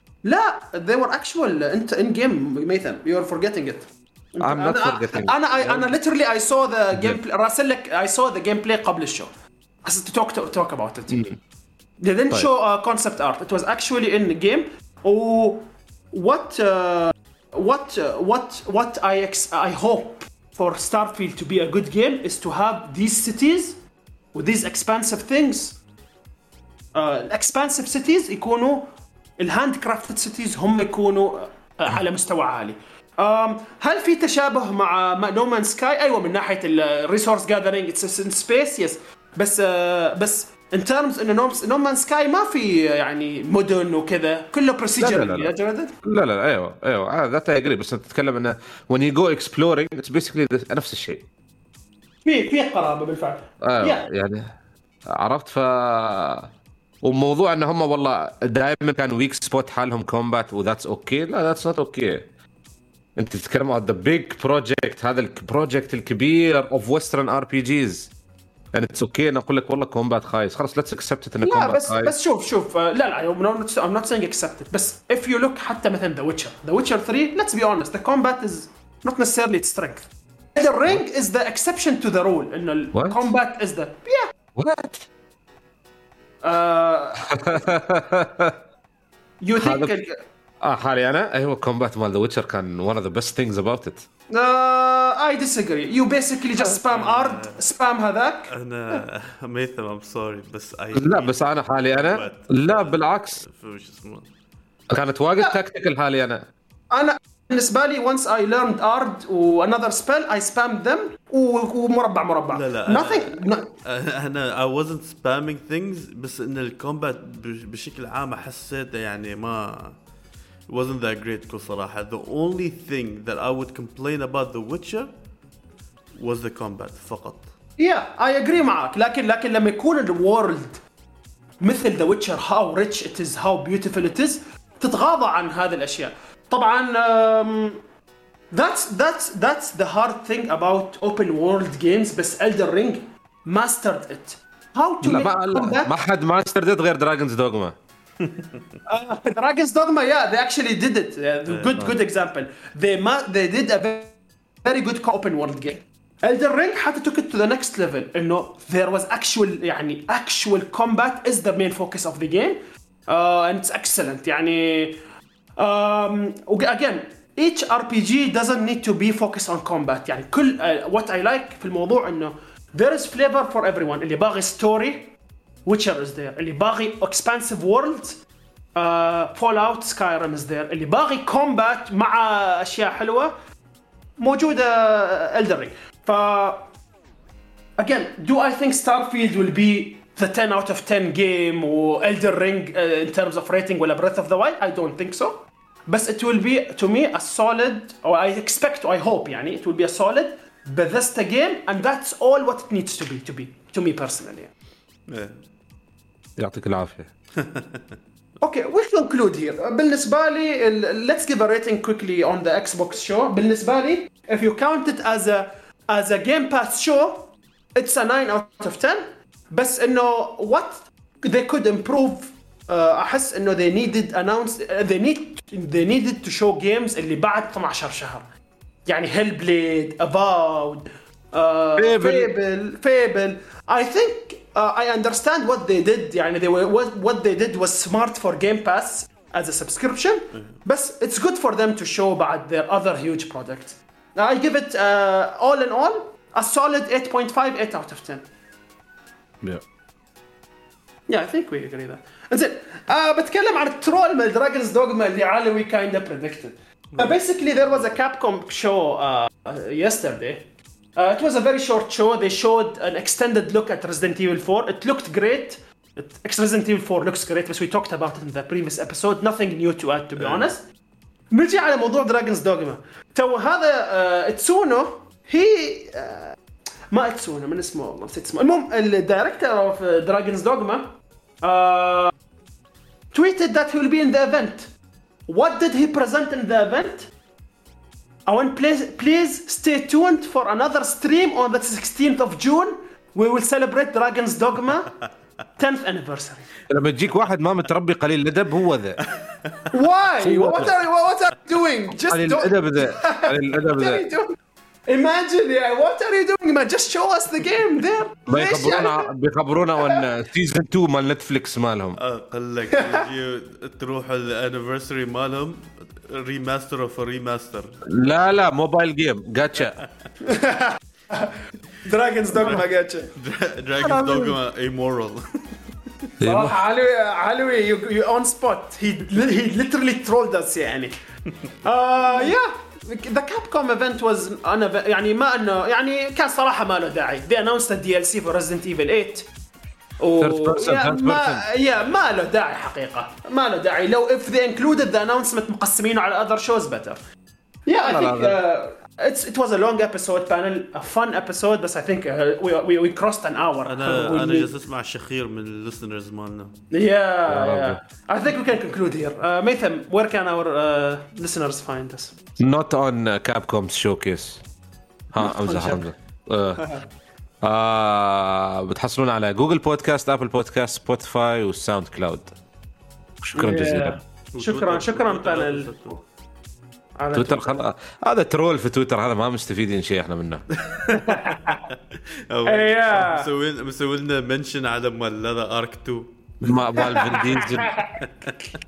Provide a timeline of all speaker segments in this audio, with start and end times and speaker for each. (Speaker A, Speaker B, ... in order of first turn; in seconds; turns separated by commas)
Speaker A: 0.2-9.3, Speaker B: 4.4-5.9, Speaker B: 6.9-7.2, Speaker A: 9.8-11.3, Speaker B: 11.1-11.4, Speaker A: 12.0-23.8, Speaker A: 24.3-25.8, Speaker A: 26.9-45.9, Speaker B: 45.0-45.5, Speaker B: 46.0-51.3, Speaker A: 52.2-54.0, Speaker B: 53.6-54.5, Speaker B: 55.1-56.5, Speaker B: 57.0-62.3, Speaker B: 63.2-68.1, Speaker B: 68.7-72.1, Speaker A: 71.4-84.3, Speaker B: 82.9-83.3, Speaker B: 84.6-85.1, Speaker A: 86.4-87.6, Speaker B: 87.3-88.6, Speaker A: 89.4-90.2, Speaker B: 89.6-90.0, Speaker B: 90.6-94.0, Speaker A: 94.3-99.0, Speaker C: 96.9-97.6, Speaker C: 98.5-104.3, Speaker B: 101.0-103.4, Speaker B: 104.9-106.5, Speaker A: 106.9-113.7, Speaker C: 112.5-120.0, Speaker C: 120.7-125.1, Speaker C: 126.2-127.5, Speaker A: 127.8-130.8, Speaker A: 131.6-137.8, Speaker A: 138.5-145.9, Speaker B: 145.0-147.8, Speaker A: 148.9-165.0, Speaker C: 151.5-151.8, Speaker A: 165.6-175.2, Speaker A: 175.7-178.2, Speaker A: 178.8-183.3, Speaker A: 184.2-186.7, Speaker A: 187.8-204.5, Speaker C: 205.1-205.4, Speaker B: 206.4-207.1, Speaker C: 207.4-207.8, Speaker A: 208.4-228.2, Speaker A: 228.9-248.2, Speaker B: 231.8-232.3, Speaker A: 251.1-270.6, Speaker C: 270.2-270.5, Speaker A: 271.3-276.4, Speaker A: 276.9-282.1, Speaker A: 283.1-284.7, Speaker A: 285.3-287.1, Speaker A: 288.3-295.0, Speaker A: 295.6-296.5, Speaker B: 296.7-299.0, Speaker C: 299.1-299.6, Speaker A: 299.7-304.4, Speaker B: 300.2-300.8, Speaker B: 302.1-304.1, Speaker A: 304.9-309.1, Speaker B: 308.3-312.0, Speaker C: 312.0-317.9, Speaker A: 312.8-313.0, Speaker B: 317.9-319.8, Speaker A: 320.2-323.1, Speaker C: 323.2-325.8, Speaker A: 323.8-324.4, Speaker B: 326.2-326.6, Speaker A: 326.2-330.9, Speaker A: 331.6-339.3, Speaker A: 340.0-347.0, Speaker B: 340.2-341.4, Speaker A: 347.7-354.5, Speaker B: 347.8-348.4, Speaker C: 353.6-356.6, Speaker A: 356.7-362.2, Speaker B: 357.3-357.8, Speaker B: 362.4-364.4, Speaker B: 365.1-366.7, Speaker A: 365.2-365.9, Speaker B: 367.4-372.3, Speaker B: 373.2-374.0, Speaker A: 373.4-375.9, Speaker C: 374.3-376.0, Speaker A: 377.0-377.6, Speaker B: 377.1-380.5, Speaker C: 380.6-381.8, Speaker A: 380.9-381.6, Speaker C: 382.3-387.3, Speaker A: 382.5-383.3, Speaker B: 386.4-387.8, Speaker A: 386.8-388.0, Speaker C: 388.0-388.3